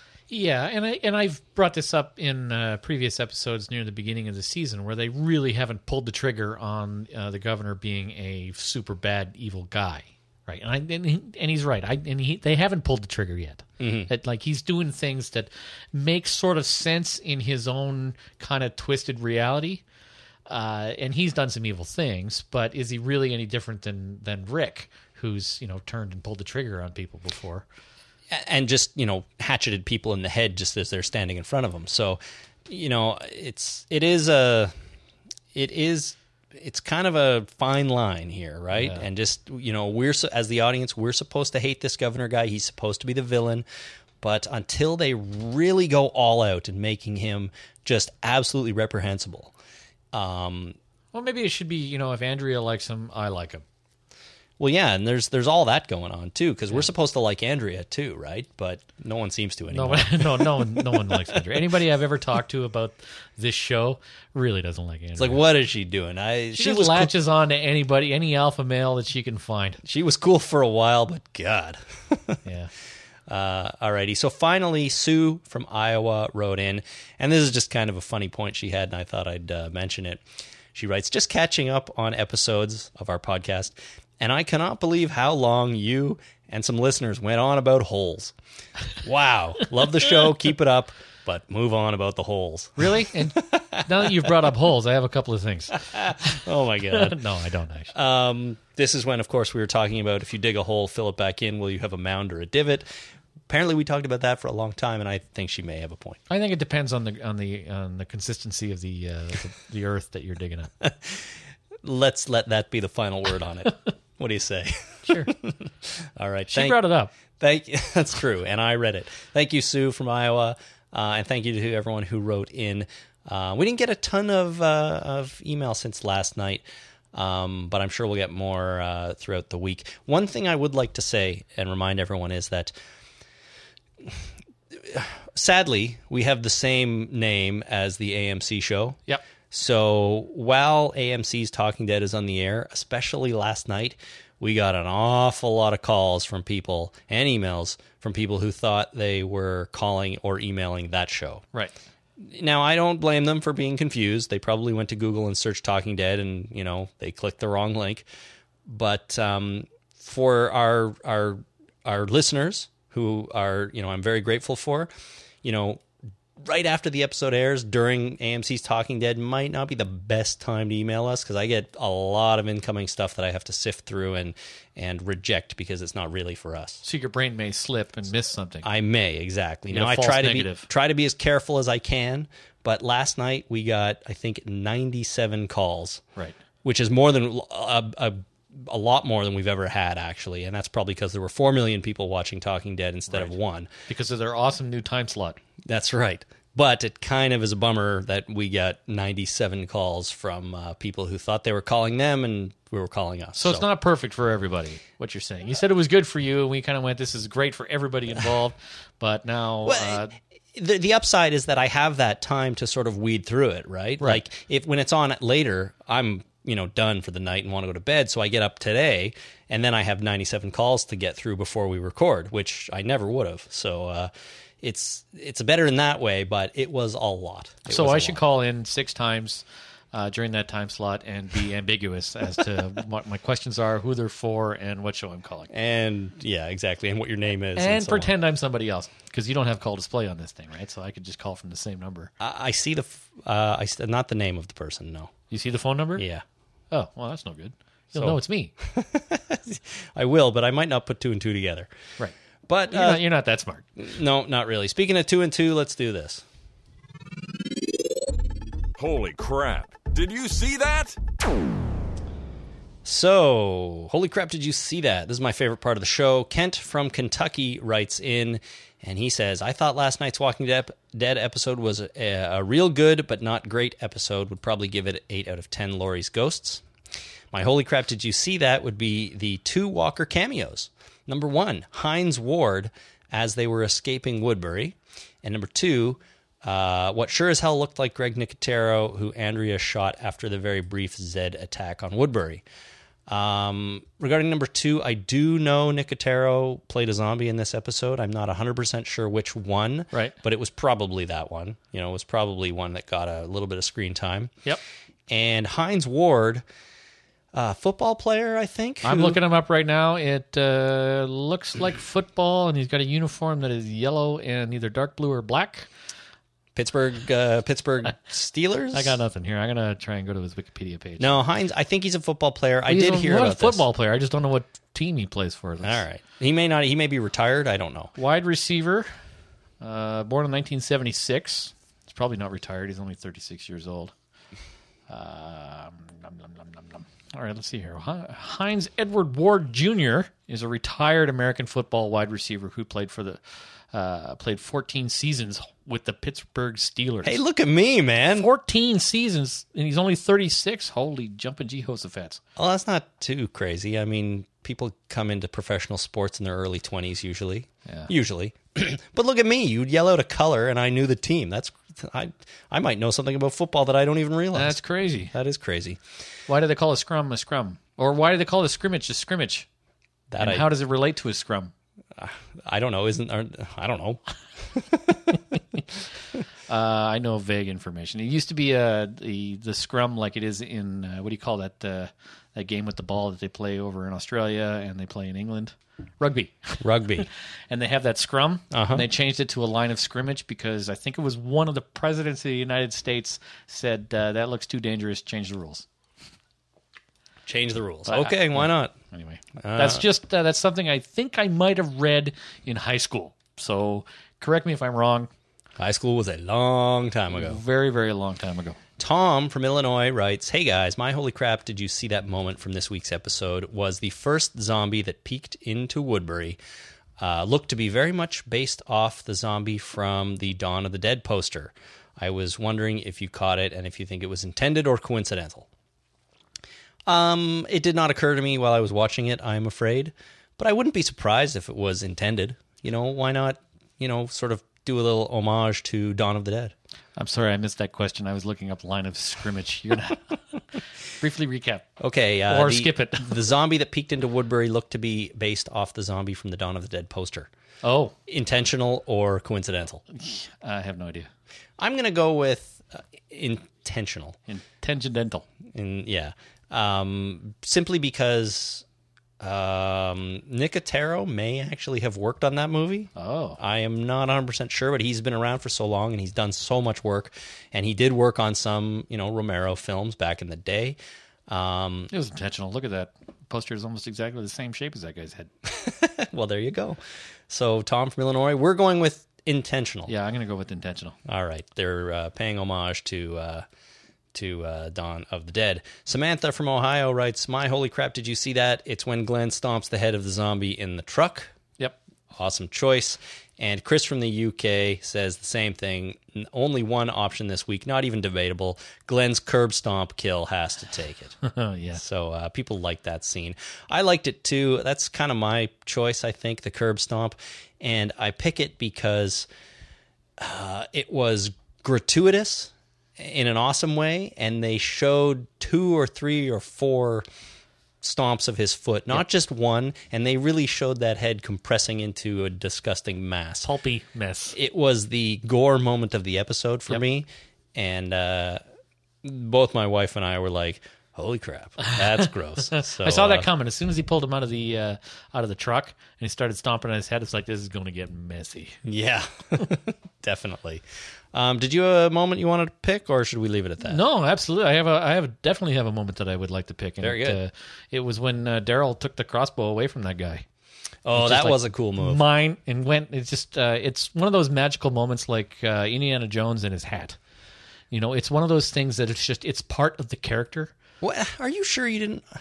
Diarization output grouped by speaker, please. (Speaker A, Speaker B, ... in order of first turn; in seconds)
Speaker A: 0.3-19.8, 20.5-27.6, 38.8-39.0, 51.1-53.6, 59.7-65.4, 66.5-69.8, 72.4-72.7, 92.8-97.9, 106.3-110.7, 115.1-115.3, 116.5-117.1, 176.8-178.7, 179.7-180.7, 193.9-195.4, 203.3-210.1, 227.7-235.5, 237.6-242.1, 245.3-246.0, 246.7-248.5, 252.7-253.7, 308.8-315.7, 318.7-321.2, 322.7-325.8, 327.9-328.9, 329.6-333.9, 334.9-343.2, 343.7-347.2, 348.1-352.2, 357.6-357.9, 364.3-365.1, 366.3-369.5, 370.2-371.5, 376.5-395.6, 397.9-405.1, 407.1-408.6, 436.9-440.2, 441.0-441.7, 442.3-443.1, 447.6-447.9, 449.9-451.1, 454.3-455.2, 462.9-463.4, 471.9-475.3, 479.9-480.9, 501.2-501.8, 523.4-524.4, 532.5-538.6, 543.6-550.2, 551.0-557.0, 557.7-560.5
Speaker B: 13.8-14.1, 28.3-34.7, 35.5-43.6, 44.2-49.5, 50.1-50.8, 54.6-61.4, 65.2-67.1, 69.8-72.4, 73.3-88.3, 89.0-94.3, 95.8-97.2, 97.9-102.9, 103.5-106.2, 110.8-111.2, 111.8-116.8, 117.4-132.7, 134.7-139.0, 139.5-151.4, 152.2-158.1, 158.7-164.9, 165.4-165.8, 166.4-176.8, 178.6-186.0, 186.6-193.7, 195.6-203.6, 209.6-228.2, 235.5-238.1, 242.2-245.1, 246.0-246.2, 248.7-251.7, 252.5-253.0, 253.8-256.2, 262.8-276.6, 277.3-292.4, 293.1-304.3, 305.1-306.4, 307.3-309.2, 316.5-318.9, 321.0-323.6, 325.6-327.9, 347.0-348.3, 352.4-364.6, 365.1-365.8, 370.1-370.5, 372.0-375.2, 386.6-387.1, 388.5-388.9, 397.2-398.8, 399.4-399.8, 405.6-407.4, 408.8-416.4, 417.0-425.5, 426.9-436.5, 441.8-447.3, 448.1-449.8, 451.6-454.2, 455.5-458.6, 459.2-470.8, 471.3-471.9, 475.4-479.9, 481.1-483.4, 484.1-491.3, 492.1-501.2, 501.7-509.3, 510.2-517.0, 517.8-523.5, 524.3-528.4, 529.0-533.3, 538.6-543.8, 546.8-547.2, 550.9-552.0, 560.8-562.0
Speaker C: 258.8-261.0